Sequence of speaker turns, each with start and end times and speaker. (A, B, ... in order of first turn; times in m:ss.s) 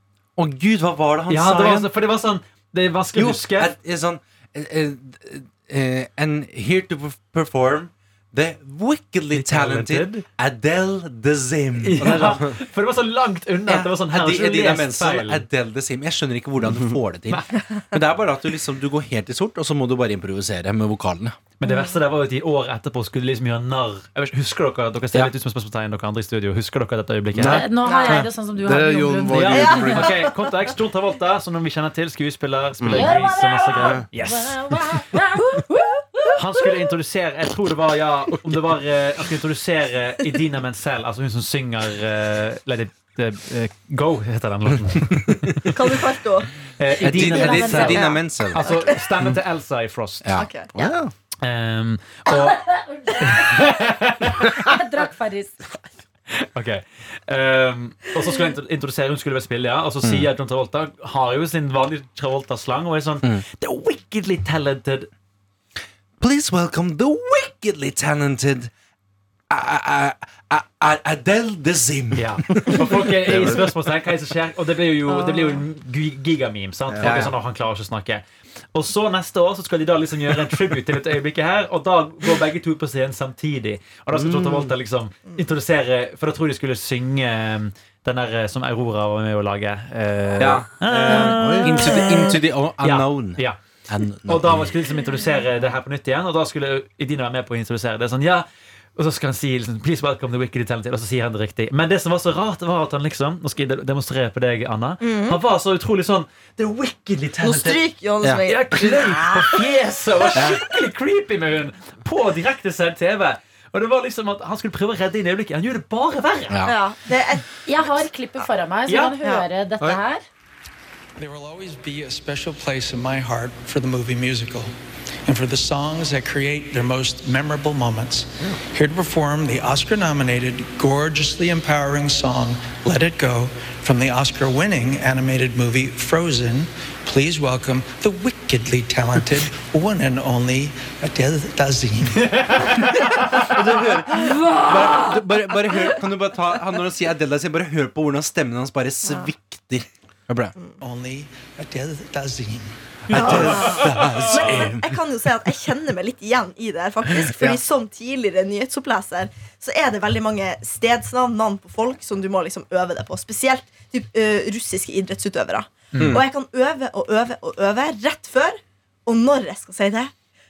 0:00.4-0:01.9 A
0:01.3-0:03.7 B
0:03.1-0:12.6 A
0:09.3-0:10.2 B
0:11.8-0:15.4 B
0:13.7-0:21.4 A
0:21.6-0:27.6 B
0:21.6-0:21.9 C
0:27.3-0:30.3 D
0:27.4-0:30.0 E
0:27.8-0:28.3 C
0:29.3-0:34.8 B
0:29.5-0:30.3 C
0:32.8-0:33.2 D
0:32.9-0:36.3 E
0:33.8-0:34.0 D
0:35.7-0:36.3 C
0:36.4-0:45.3 B
0:45.0-0:45.6 A
0:45.7-0:46.5 C
0:46.8-0:50.2 B
0:47.0-0:48.2 E
0:47.0-0:48.6 A
0:48.0-0:49.0 C
0:50.2-0:50.5 A
0:50.4-0:50.7 C
0:50.7-0:51.1 D
0:51.4-0:52.6 B
0:52.3-0:55.9 E
0:53.2-0:54.7 B
0:56.5-1:05.1 B
1:00.0-1:00.3 A
1:06.2-1:08.7 A
1:09.5-1:13.6 A
1:12.1-1:18.2 B
1:12.6-1:13.7 D
1:15.2-1:15.6 C
1:16.9-1:17.3 D
1:17.0-1:17.3 A
1:18.7-1:32.0 B
1:24.1-1:24.7 D
1:30.4-1:34.8 A
1:31.1-1:32.3 C
1:31.4-1:31.9 D
1:32.8-1:33.6 B
1:34.2-1:47.8 B
1:45.0-1:45.4 C
1:47.4-1:49.6 C
1:48.5-1:56.6 B
1:50.3-1:50.6 A
1:56.5-1:56.8 A
1:56.6-1:58.5 C
1:57.7-2:00.2 E
1:58.9-1:59.1 B
2:01.2-2:04.7 F
2:05.2-2:22.9 F
2:23.4-2:30.5 A
2:29.0-2:29.3 C
2:30.8-2:33.5 F
2:33.1-2:35.0 A
2:33.1-2:50.1 C
2:37.2-2:37.6 A
2:45.9-2:46.2 B
2:46.0-2:46.2 A